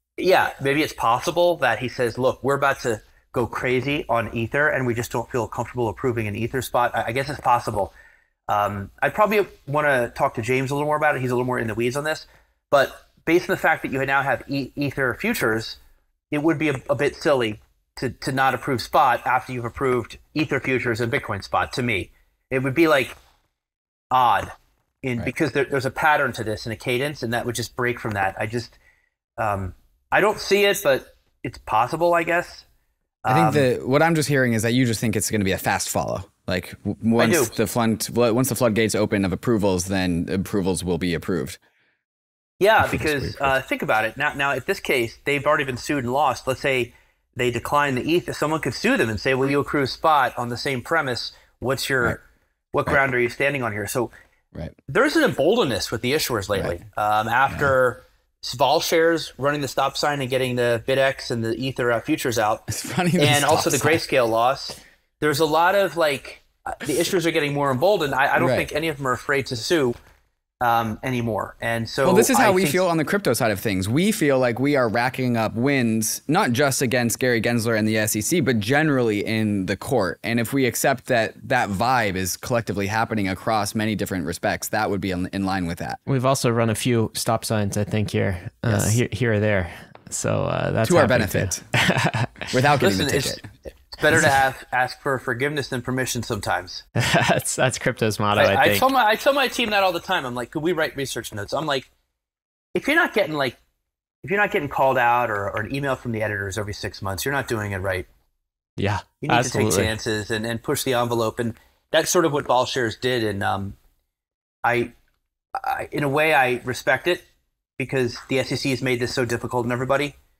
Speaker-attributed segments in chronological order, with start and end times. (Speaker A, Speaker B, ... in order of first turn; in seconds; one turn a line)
Speaker A: 0.2-7.9
Speaker A: 8.5-15.8
Speaker A: 16.3-23.1
Speaker A: 24.1-28.8
Speaker A: 29.4-32.6
Speaker A: 33.2-33.7
Speaker B: 33.3-41.6
Speaker A: 37.2-37.5
Speaker A: 42.6-52.2
Speaker A: 52.7-54.1
Speaker A: 54.9-62.6
Speaker B: 62.7-64.0
Speaker A: 63.1-69.9
Speaker B: 68.3-68.7
Speaker A: 70.6-72.8
Speaker B: 72.0-86.0
Speaker C: 86.1-92.5
Speaker A: 88.7-89.0
Speaker B: 90.8-91.7
Speaker B: 92.5-93.4
Speaker A: 92.8-96.8
Speaker C: 97.0-98.8
Speaker A: 98.3-101.9
Speaker A: 102.7-103.6
Speaker A: 104.2-108.1
Speaker C: 108.8-109.9
Speaker A: 109.2-113.8
Speaker A: 114.6-114.9
Speaker A: 115.5-117.2
Speaker A: 117.8-120.2